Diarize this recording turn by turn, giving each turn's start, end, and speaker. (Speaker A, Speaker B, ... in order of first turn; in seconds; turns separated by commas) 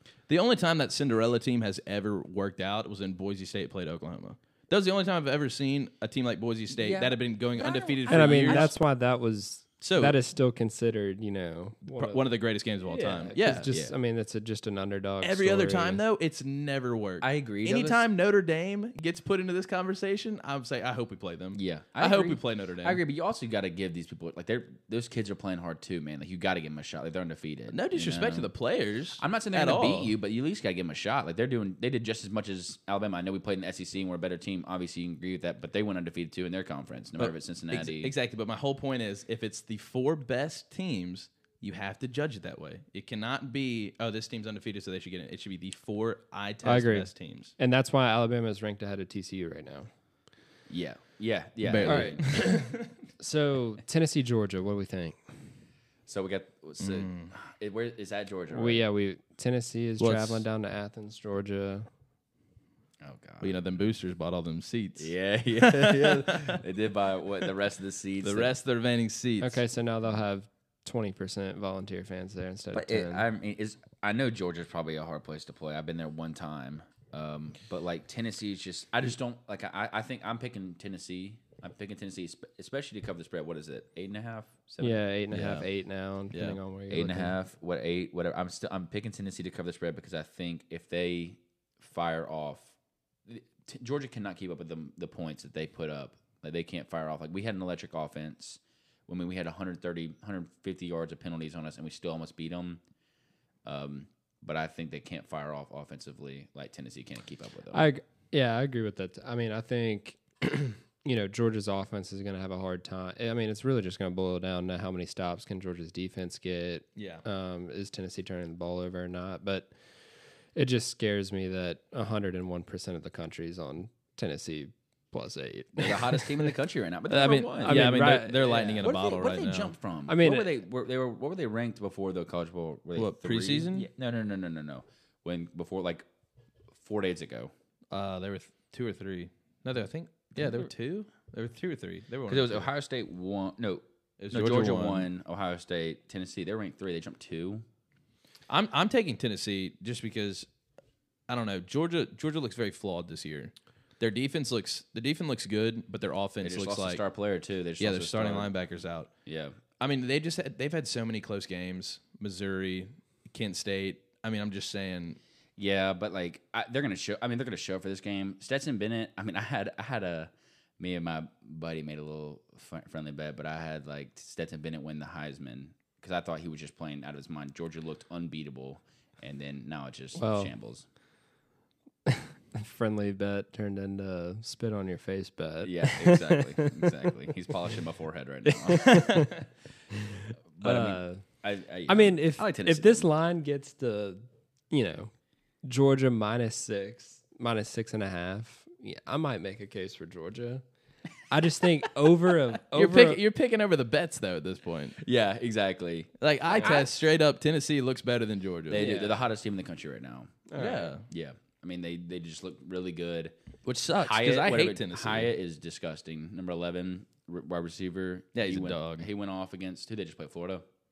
Speaker A: 0.3-8.7, Speaker B: 6.7-8.7, Speaker C: 8.1-12.2, Speaker A: 9.8-10.2, Speaker A: 11.9-13.7, Speaker C: 12.9-16.0, Speaker B: 13.7-13.9, Speaker A: 15.2-23.0, Speaker B: 17.2-18.0, Speaker B: 21.5-28.5, Speaker A: 27.7-30.1, Speaker B: 29.2-38.1, Speaker A: 37.2-47.5, Speaker C: 46.6-49.9, Speaker B: 50.7-52.2, Speaker A: 51.6-52.9, Speaker C: 51.8-55.2, Speaker B: 56.1-58.8, Speaker A: 56.8-57.3, Speaker C: 58.5-61.9, Speaker A: 60.0-60.4, Speaker B: 63.0-63.6, Speaker A: 63.4-66.6, Speaker B: 65.0-68.5, Speaker A: 68.2-69.6, Speaker C: 69.4-73.2, Speaker B: 72.7-85.0, Speaker C: 84.8-87.4, Speaker A: 85.3-85.7, Speaker A: 86.3-86.6, Speaker B: 86.9-92.8, Speaker B: 93.3-102.8, Speaker B: 103.7-107.9, Speaker C: 107.7-119.7, Speaker A: 117.0-117.2, Speaker C: 120.5-126.5, Speaker B: 125.8-136.1, Speaker A: 127.1-129.7, Speaker C: 127.6-128.8, Speaker C: 130.1-130.6, Speaker A: 133.0-133.9, Speaker B: 136.8-137.5, Speaker A: 137.9-142.7, Speaker B: 140.4-140.7, Speaker B: 142.3-147.6, Speaker A: 144.2-145.1, Speaker A: 148.5-150.5, Speaker A: 151.3-157.0, Speaker B: 156.4-158.5, Speaker A: 157.8-159.1, Speaker B: 159.3-159.6, Speaker A: 159.8-165.2, Speaker B: 165.6-180.9, Speaker C: 180.2-180.5, Speaker C: 182.1-187.1, Speaker B: 185.6-189.3, Speaker C: 188.4-189.4, Speaker C: 189.9-191.2, Speaker B: 190.6-193.1, Speaker C: 191.9-195.1, Speaker C: 195.6-200.6, Speaker C: 201.3-203.2, Speaker A: 202.7-205.0, Speaker B: 205.0-206.9, Speaker A: 206.2-208.9, Speaker B: 208.7-210.4, Speaker C: 208.8-209.2, Speaker C: 210.5-211.0, Speaker A: 210.6-211.1, Speaker B: 211.1-213.3, Speaker A: 213.7-215.3, Speaker B: 214.0-220.6, Speaker A: 218.3-219.1